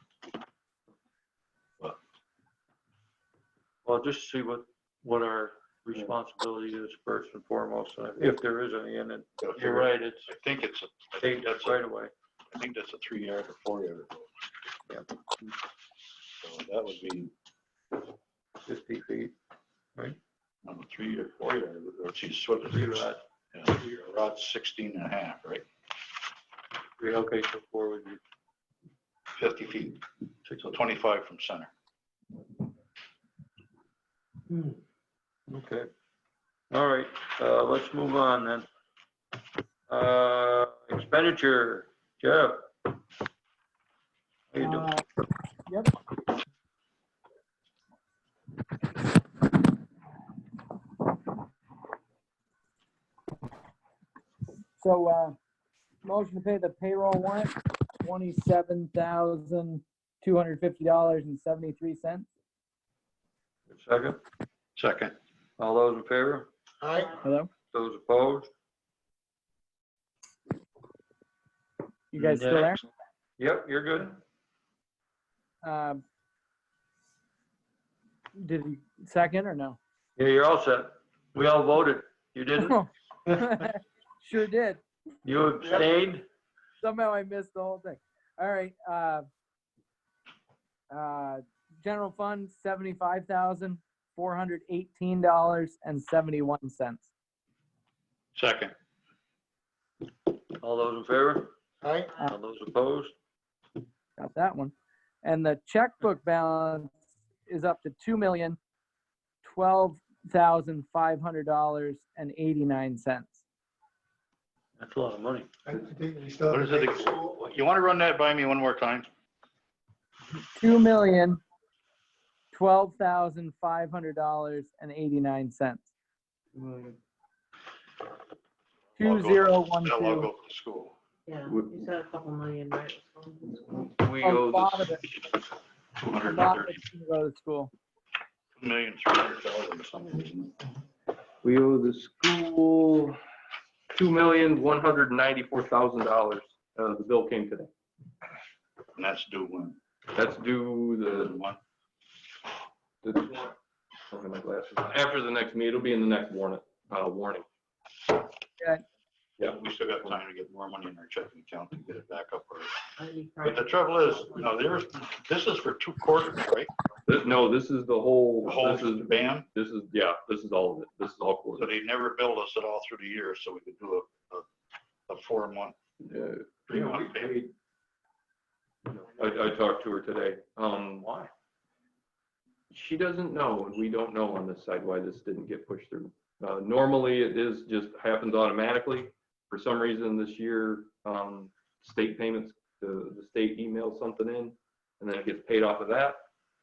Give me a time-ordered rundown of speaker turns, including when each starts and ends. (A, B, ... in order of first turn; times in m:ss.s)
0:03.8-0:10.3 A
0:09.4-0:11.8 B
0:11.2-0:12.1 A
0:12.5-0:14.3 B
0:16.4-0:17.3 B
0:18.6-0:19.3 A
0:20.6-0:25.6 B
0:22.6-0:23.2 A
0:27.0-0:28.2 A
0:29.4-0:30.0 B
0:30.4-0:30.8 A
0:30.6-0:31.7 B
0:35.5-0:35.9 A
0:36.7-0:38.6 A
0:39.9-0:42.7 A
0:44.5-0:44.9 A
0:44.6-0:45.0 C
0:45.7-0:45.9 C
0:54.8-0:55.4 C
0:56.0-1:02.3 C
1:03.7-1:04.2 A
1:04.8-1:05.1 B
1:05.6-1:06.5 A
1:06.8-1:07.1 D
1:07.2-1:07.5 C
1:07.7-1:08.5 A
1:12.1-1:12.8 C
1:12.2-1:12.8 A
1:13.4-1:14.2 A
1:15.6-1:16.0 C
1:18.4-1:19.8 C
1:20.2-1:22.8 A
1:22.6-1:24.8 C
1:25.2-1:26.2 A
1:26.8-1:29.2 C
1:30.9-1:37.1 C
1:38.3-1:38.7 B
1:40.6-1:41.5 A
1:41.8-1:42.1 D
1:42.2-1:43.1 A
1:44.2-1:46.9 C
1:47.4-1:48.6 C
1:49.4-1:53.4 C
1:54.8-1:55.5 A
1:55.6-1:57.3 D
1:56.5-1:59.1 B
2:00.6-2:01.4 C
2:02.5-2:05.9 C
2:06.5-2:07.0 E
2:09.0-2:10.3 C
2:09.0-2:10.9 B
2:11.3-2:13.9 F
2:11.5-2:11.8 E
2:13.9-2:14.9 E
2:14.2-2:15.1 C
2:16.0-2:16.8 B
2:16.2-2:17.7 C
2:18.6-2:20.6 B
2:21.4-2:23.2 E
2:23.9-2:27.7 E
2:28.9-2:29.8 B
2:30.1-2:31.4 E
2:31.1-2:31.6 B
2:33.0-2:33.6 E
2:34.1-2:37.4 E
2:39.4-2:42.8 B
2:43.0-2:44.5 F
2:43.4-2:46.7 B
2:47.0-2:51.7 E
2:48.4-2:49.4 B
2:51.6-2:54.4 B
2:55.1-2:55.7 B
2:56.0-2:57.5 E
2:56.7-2:57.4 B
2:58.9-3:01.0 E
3:01.0-3:01.3 A
3:02.7-3:16.2 E